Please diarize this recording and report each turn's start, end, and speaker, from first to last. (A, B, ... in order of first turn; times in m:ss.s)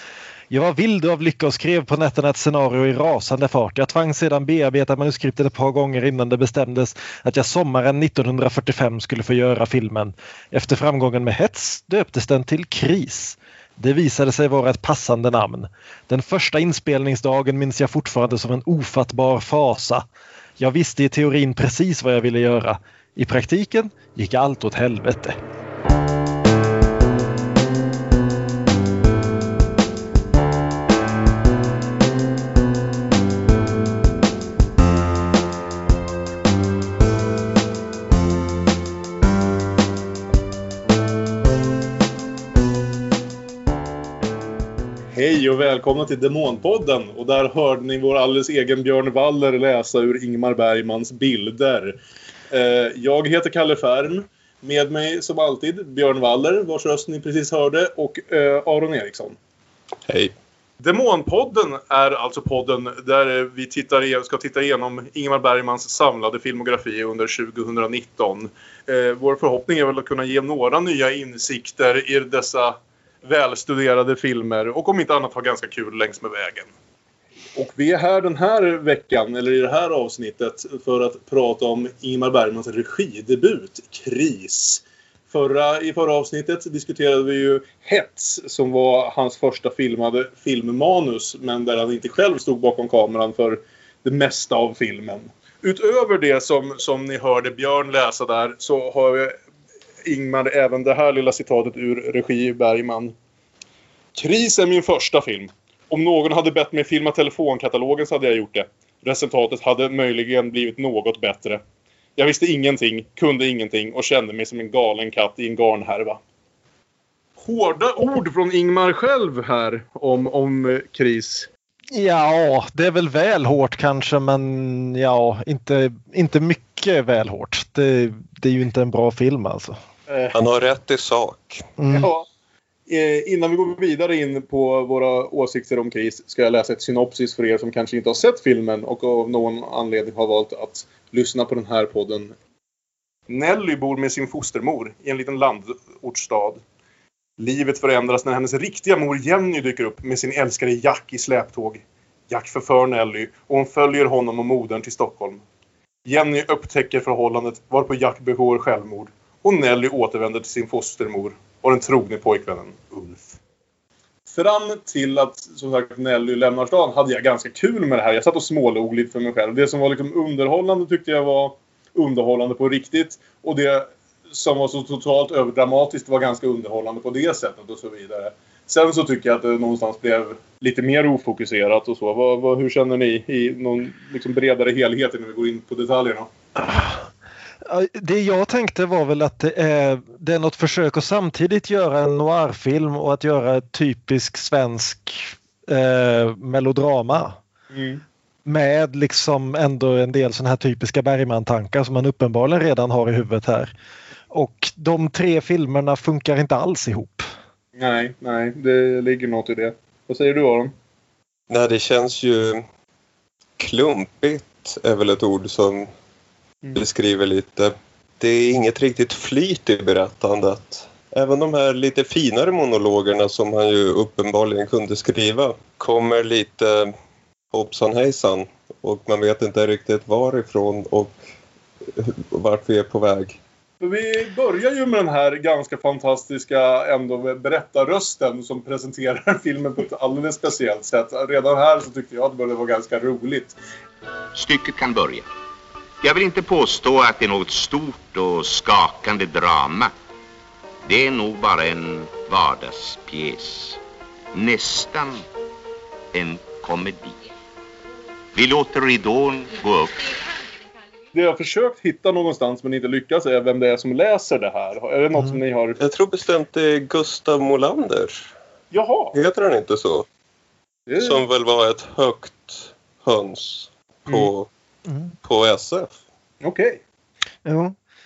0:00.5-0:20.0 A
0:20.6-0:25.4 A
0:45.1-0:52.0 B
0:52.5-0:59.4 B
1:00.1-1:00.3 C
1:00.8-1:16.7 B
1:17.5-1:39.3 B
1:40.0-1:43.1 B
1:44.1-1:51.6 B
1:52.2-1:56.2 B
1:57.4-2:01.5 B
2:01.9-2:09.8 A
2:10.1-2:10.4 B
2:10.3-2:11.7 C
2:11.8-2:12.1 A
2:11.9-2:12.3 B
2:12.9-2:22.3 B
2:23.3-2:26.6 B
2:27.4-2:35.4 B
2:36.0-2:43.4 B
2:44.3-3:06.3 B
3:06.6-3:07.0 A
3:07.6-3:17.4 A
3:17.7-3:18.0 B
3:18.4-3:23.7 A
3:24.3-3:27.3 A
3:27.8-3:30.7 B
3:31.5-3:32.6 C
3:33.6-3:35.9 C
3:36.7-3:46.9 C
3:47.5-3:51.2 C
3:51.9-3:53.4 C
3:53.8-4:03.6 B
4:04.3-4:05.3 D
4:06.0-4:09.9 D
4:10.8-4:13.8 D
4:14.3-4:15.2 D
4:16.1-4:17.2 D
4:18.3-4:20.0 D
4:21.1-4:25.8 B
4:25.8-4:28.3 C
4:28.7-4:29.1 B
4:29.1-4:30.1 C
4:30.9-4:31.2 B
4:31.0-4:34.5 C
4:34.9-4:35.1 A
4:35.2-4:36.0 C
4:36.4-4:36.8 B
4:37.4-4:37.7 A